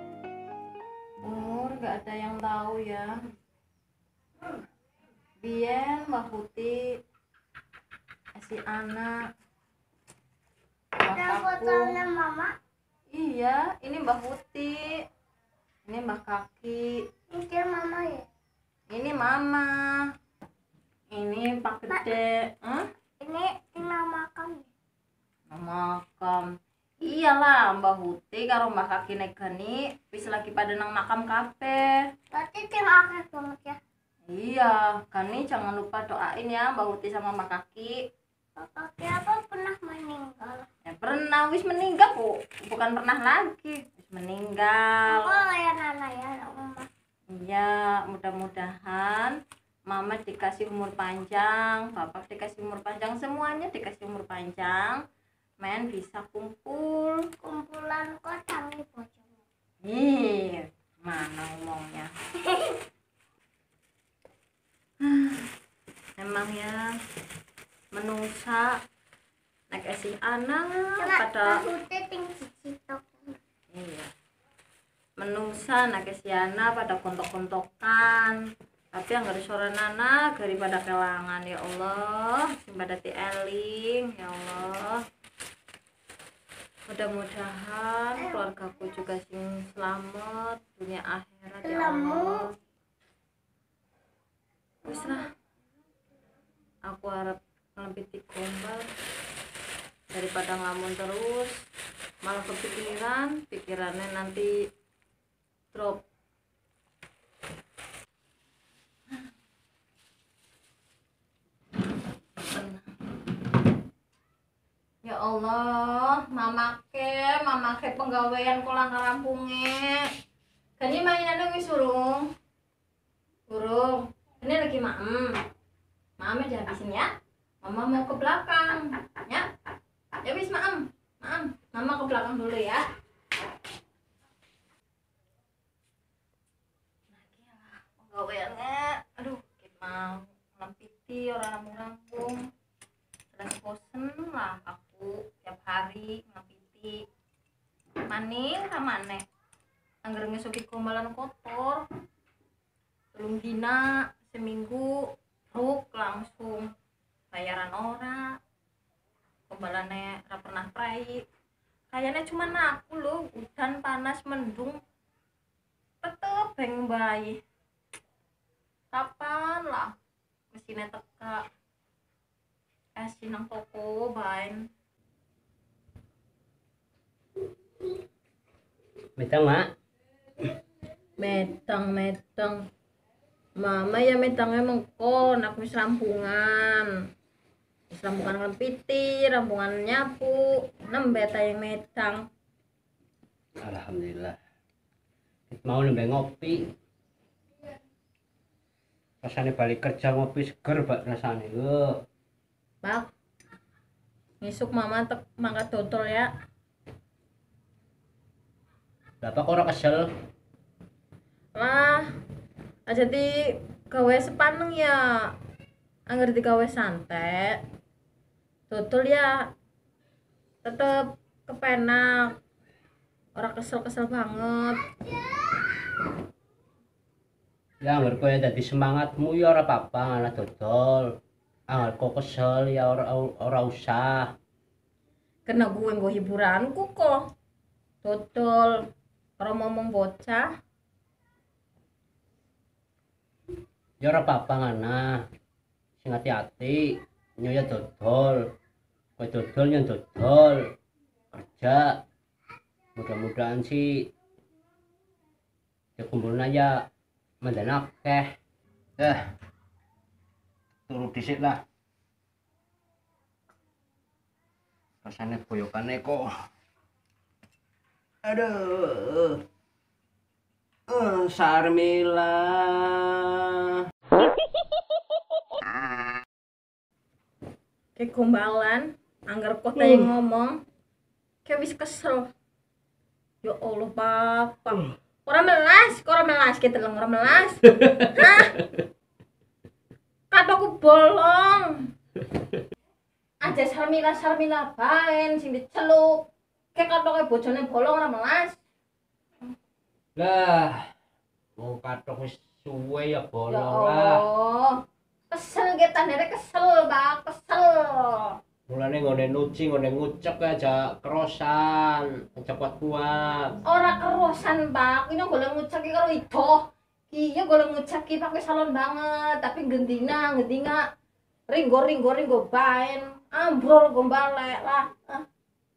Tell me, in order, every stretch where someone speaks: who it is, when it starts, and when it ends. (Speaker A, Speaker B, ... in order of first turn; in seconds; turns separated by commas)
Speaker A: 1.2-3.2, Speaker A: 5.4-6.8, Speaker A: 8.4-9.2, Speaker A: 11.0-12.0, Speaker B: 11.1-12.6, Speaker A: 13.1-14.9, Speaker A: 15.9-17.0, Speaker B: 17.3-18.3, Speaker A: 18.9-19.7, Speaker A: 21.1-22.9, Speaker B: 23.2-24.7, Speaker A: 25.5-26.5, Speaker A: 27.0-31.9, Speaker B: 32.3-33.8, Speaker A: 34.3-38.0, Speaker B: 38.6-40.7, Speaker A: 40.9-45.4, Speaker B: 45.1-46.9, Speaker A: 47.3-55.0, Speaker A: 55.6-57.3, Speaker B: 57.4-59.4, Speaker A: 59.8-62.1, Speaker B: 62.4-62.8, Speaker A: 65.0-65.5, Speaker A: 66.2-66.8, Speaker A: 67.9-68.8, Speaker A: 69.7-71.7, Speaker B: 71.0-73.4, Speaker A: 73.7-74.1, Speaker A: 75.2-78.4, Speaker A: 78.9-85.0, Speaker A: 86.9-92.5, Speaker B: 88.2-88.6, Speaker B: 91.6-92.4, Speaker A: 94.8-95.3, Speaker B: 94.9-95.2, Speaker A: 96.8-98.9, Speaker A: 100.1-101.5, Speaker A: 102.2-104.5, Speaker A: 105.7-106.0, Speaker A: 112.4-112.9, Speaker A: 115.0-120.1, Speaker A: 120.8-122.3, Speaker A: 123.5-125.4, Speaker A: 126.2-127.1, Speaker A: 127.6-129.5, Speaker A: 130.2-132.8, Speaker A: 137.1-142.4, Speaker A: 143.3-147.0, Speaker A: 148.1-149.2, Speaker A: 150.0-151.8, Speaker A: 153.1-154.9, Speaker A: 155.5-156.7, Speaker A: 157.3-158.2, Speaker A: 159.5-161.2, Speaker A: 161.9-164.8, Speaker A: 166.0-167.4, Speaker A: 168.9-169.9, Speaker A: 170.5-171.4, Speaker A: 173.0-174.6, Speaker C: 179.2-179.7, Speaker A: 181.2-182.6, Speaker A: 183.6-186.9, Speaker A: 187.9-192.2, Speaker C: 193.6-194.4, Speaker C: 195.5-196.7, Speaker C: 199.2-201.9, Speaker A: 202.8-203.1, Speaker A: 204.4-206.3, Speaker C: 209.2-210.1, Speaker A: 211.6-212.1, Speaker A: 212.9-213.3, Speaker A: 213.9-215.3, Speaker A: 216.1-217.6, Speaker A: 218.7-219.3, Speaker A: 220.6-222.3, Speaker A: 223.4-224.8, Speaker C: 227.8-231.1, Speaker C: 231.7-234.3, Speaker A: 235.5-237.3, Speaker A: 238.0-238.8, Speaker A: 239.4-240.5, Speaker C: 244.0-245.2, Speaker C: 246.0-248.4, Speaker C: 249.2-250.6, Speaker C: 251.3-251.9, Speaker C: 253.0-254.1, Speaker C: 256.0-256.9, Speaker C: 257.4-258.3, Speaker C: 260.9-261.6, Speaker C: 265.0-266.3, Speaker C: 268.2-269.4, Speaker C: 270.9-273.4, Speaker A: 278.0-280.6, Speaker A: 281.4-282.3, Speaker A: 283.4-288.6, Speaker A: 290.3-291.8, Speaker A: 293.4-298.6, Speaker C: 300.2-300.8, Speaker C: 301.6-304.2, Speaker A: 303.5-304.8, Speaker A: 305.3-308.4, Speaker C: 308.7-313.5, Speaker A: 313.6-320.8, Speaker A: 321.5-325.2